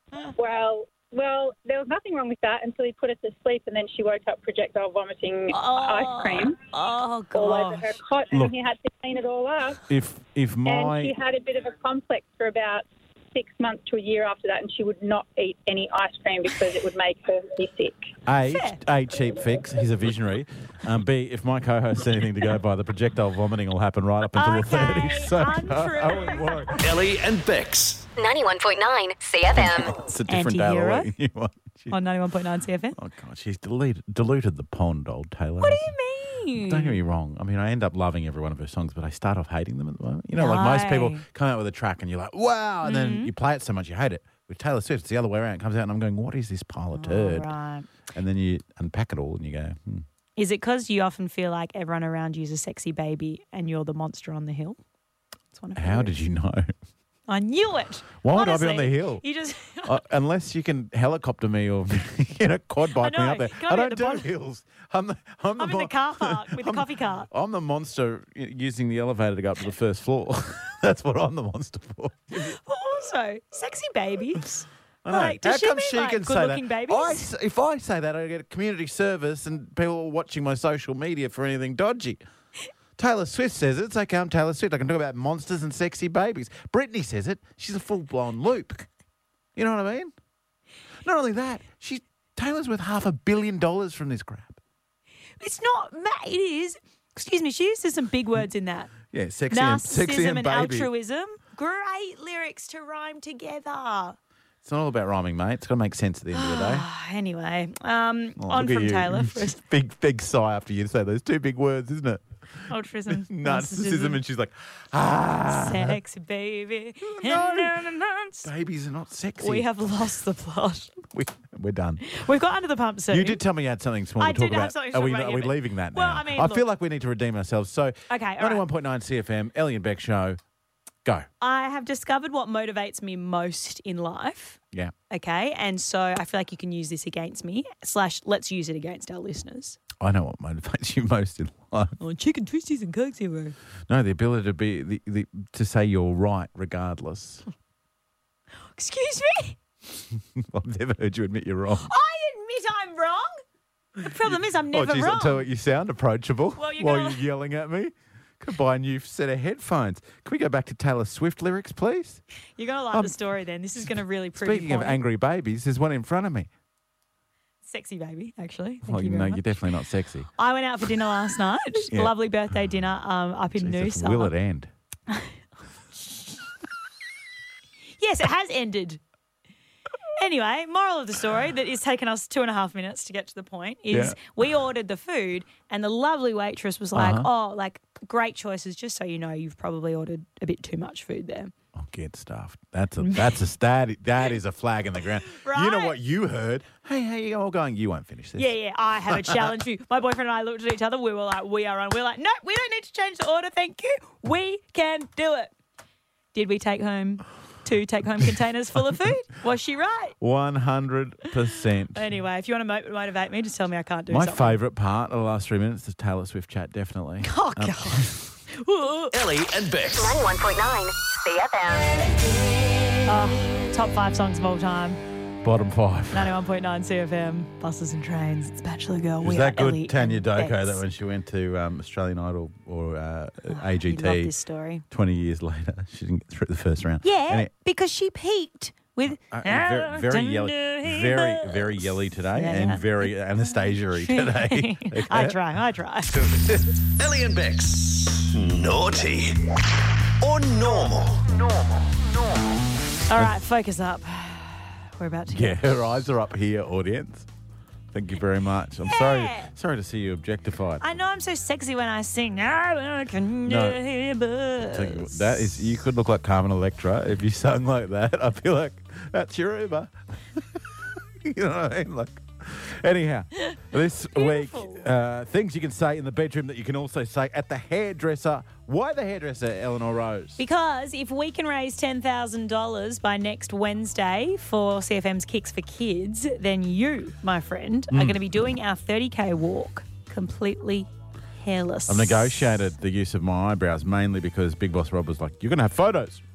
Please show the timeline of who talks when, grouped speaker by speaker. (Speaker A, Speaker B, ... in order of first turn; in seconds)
Speaker A: 0.4-6.6, 7.3-9.8, 10.7-18.1
Speaker B: 5.5-8.0, 18.5-18.8, 24.4-26.6, 30.3-31.1, 31.9-33.0, 35.6-37.0, 40.4-41.2, 42.8-43.3, 47.0-47.9, 50.4-54.8, 55.5-56.2, 57.3-60.0, 63.0-64.3, 65.6-67.3, 72.3-77.3, 95.4-98.9, 99.5-104.2, 106.3-109.6, 112.7-114.2, 115.5-118.5, 119.4-121.0, 122.0-123.4, 124.2-126.7, 128.1-128.7, 131.4-134.6, 135.1-139.8, 142.0-143.6, 148.7-149.6, 151.8-153.4, 154.0-155.4, 156.6-157.2, 162.6-165.0, 167.7-169.5, 170.4-174.3, 175.1-175.4, 176.0-176.4, 178.0-179.0, 180.2-191.5, 193.0-193.3, 195.3-196.0, 198.4-205.5, 206.3-210.2, 211.9-214.6, 217.2-219.1, 223.1-225.0, 226.1-230.8, 233.5-234.8, 237.0-243.1, 244.0-246.1, 253.1-255.6, 258.9-259.5, 260.8-265.5, 274.1-274.9, 280.4-290.9, 291.4-292.5
Speaker C: 9.9-11.2, 18.3-26.8, 29.6-32.0, 33.0-35.9, 36.6-47.5, 48.1-50.0, 55.8-56.7, 58.2-59.2, 59.9-72.6, 75.0-82.2, 83.0-88.9, 89.6-90.1, 91.0-94.6, 99.0-100.9, 104.6-106.9, 108.4-112.2, 113.1-116.0, 117.0-117.8, 118.4-119.7, 121.1-122.0, 123.1-130.4, 140.0-142.0, 143.9-147.4, 150.2-151.9, 154.2-162.2, 164.4-166.5, 168.9-170.3, 173.6-174.7, 183.9-184.2, 186.9-187.3, 191.7-198.5, 199.1-199.5, 210.2-212.1, 214.1-218.2, 225.4-226.3, 229.2-234.3, 234.9-237.5, 239.1-245.4, 246.1-246.7, 255.3-257.3, 257.9-260.8, 263.5-263.8, 264.6-280.4, 287.9-288.2, 291.9-296.2
Speaker D: 26.8-28.1, 219.1-220.2, 247.0-249.6, 250.2-252.3
Speaker E: 28.2-29.9, 219.9-222.0